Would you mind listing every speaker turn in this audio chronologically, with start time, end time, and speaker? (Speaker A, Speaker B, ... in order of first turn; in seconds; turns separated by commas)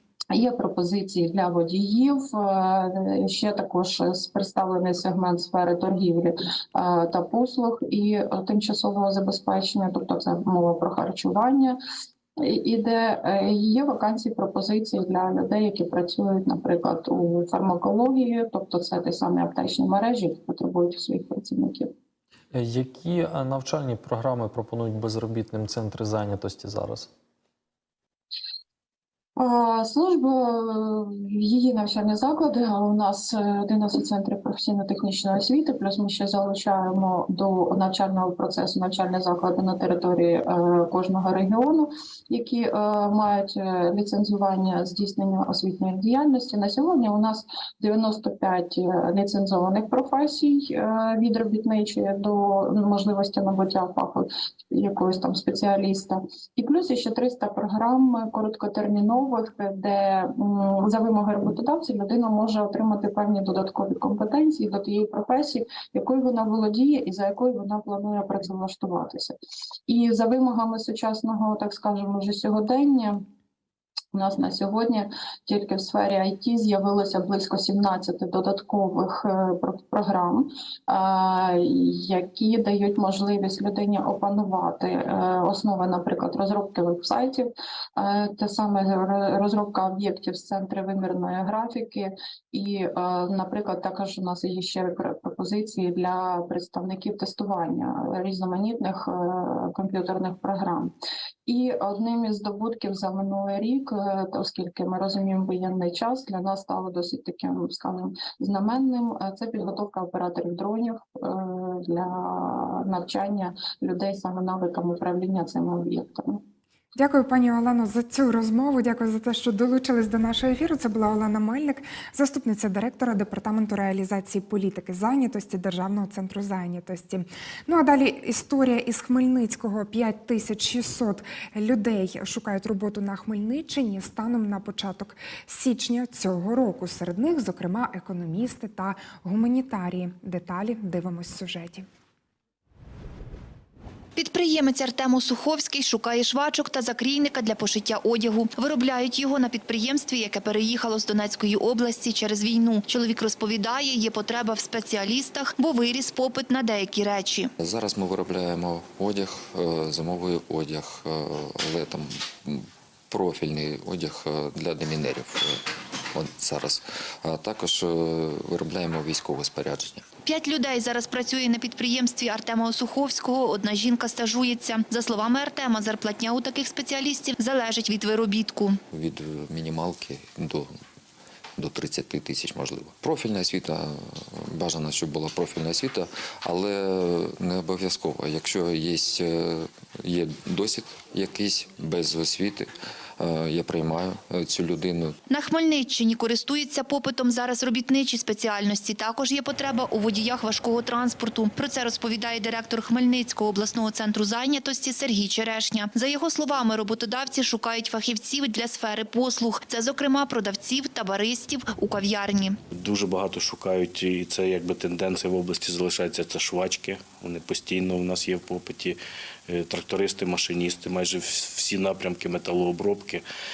Speaker A: 0.3-11.8, Speaker A: 12.4-21.9, Speaker B: 22.5-27.1, Speaker A: 29.4-69.3, Speaker A: 69.9-73.2, Speaker A: 74.1-100.9, Speaker A: 101.5-116.4, Speaker C: 117.0-141.8, Speaker D: 144.2-157.5, Speaker E: 157.6-170.1, Speaker D: 170.2-178.8, Speaker E: 178.9-180.8, Speaker E: 181.6-195.2, Speaker D: 195.3-212.6, Speaker F: 212.7-223.2